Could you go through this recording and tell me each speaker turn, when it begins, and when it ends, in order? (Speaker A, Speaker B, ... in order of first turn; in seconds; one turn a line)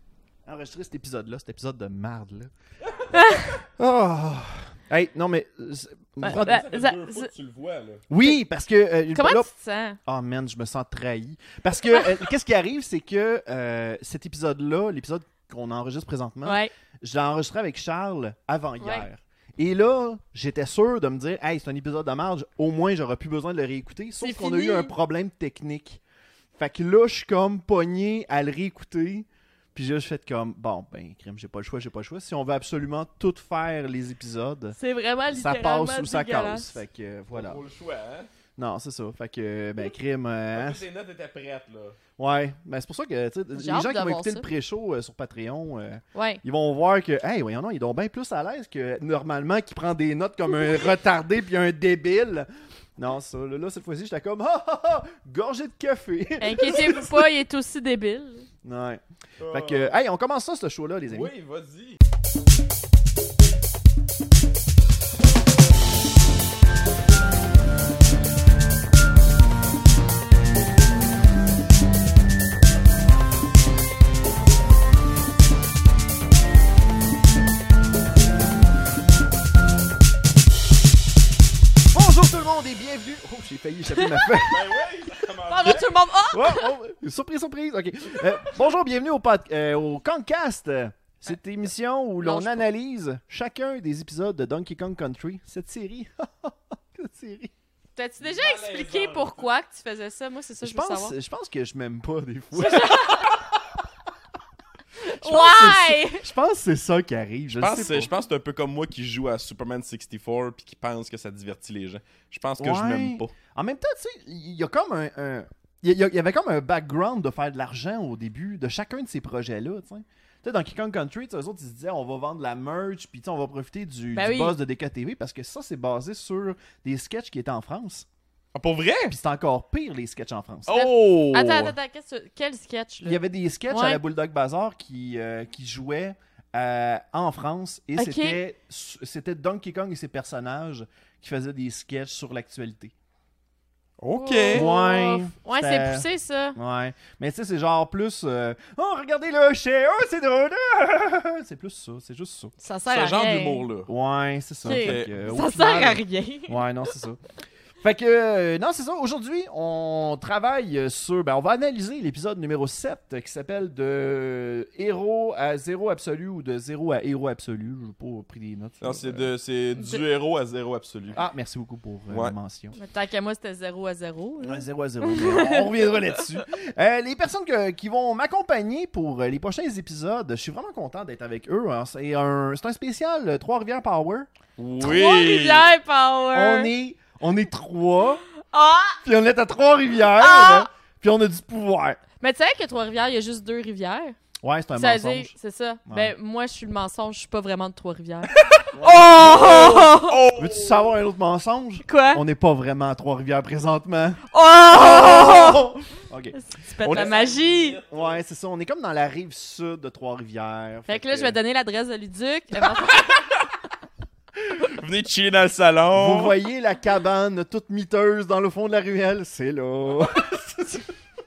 Speaker A: 0.5-2.5
Speaker B: 3.1-3.5
Speaker A: 3.8-6.6
Speaker C: 6.2-8.0
Speaker B: 6.2-7.3
Speaker A: 8.1-9.5
Speaker B: 9.2-10.0
Speaker A: 10.1-26.0
Speaker B: 16.4-16.7
Speaker B: 18.8-19.1
Speaker B: 24.2-24.9
Speaker A: 26.6-34.8
Speaker B: 34.8-36.7
Speaker A: 35.3-37.6
Speaker C: 37.3-38.3
Speaker A: 38.6-40.8
Speaker C: 40.5-42.0
Speaker A: 42.2-57.3
Speaker B: 43.5-44.5
Speaker B: 46.1-46.4
Speaker B: 56.4-58.5
Speaker A: 58.6-61.3
Speaker C: 59.4-60.0
Speaker C: 61.1-62.0
Speaker A: 81.9-84.6
Speaker B: 84.0-84.4
Speaker C: 84.4-85.9
Speaker B: 85.5-86.7
Speaker A: 86.3-97.5
Speaker B: 92.2-92.7
Speaker B: 98.0-101.1
Speaker C: 98.2-99.5
Speaker A: 100.6-103.4
Speaker B: 102.6-103.3
Speaker A: 105.2-108.1
Speaker B: 105.2-106.2
Speaker C: 107.6-113.3
Speaker A: 112.6-128.1
Speaker B: 124.2-124.6
Speaker C: 128.5-129.2
Speaker A: 129.1-130.7
Speaker C: 130.7-131.8
Speaker B: 130.7-134.0
Speaker A: 133.0-142.9
Speaker B: 138.0-138.4
Speaker C: 144.0-144.7
Speaker B: 144.2-146.6
Speaker A: 144.5-152.5
Speaker B: 152.6-153.7
Speaker C: 152.9-153.9
Speaker A: 153.9-157.2
Speaker C: 154.7-155.1
Speaker B: 154.7-156.7
Speaker A: 157.8-169.3
Speaker C: 168.8-171.2
Speaker A: 171.1-172.8
Speaker C: 172.1-172.3
Speaker B: 172.8-176.2
Speaker A: 174.4-184.3
Speaker C: 184.6-185.7
Speaker B: 184.8-186.7
Speaker A: 186.3-188.2
Speaker B: 188.5-189.0
Speaker A: 189.0-192.0
Speaker B: 190.2-190.7
Speaker B: 192.2-194.2
Speaker A: 194.4-195.3
Speaker B: 194.8-200.2
Speaker A: 195.9-196.1
Speaker C: 198.6-200.9
Speaker A: 198.7-199.5
Speaker A: 200.3-206.4
Speaker B: 201.8-202.2
Speaker B: 204.3-205.7
Speaker B: 206.3-207.8
Speaker C: 206.8-208.2
Speaker A: 207.9-211.4
Speaker B: 210.9-213.4
Speaker C: 214.5-216.4
Speaker A: 215.9-220.9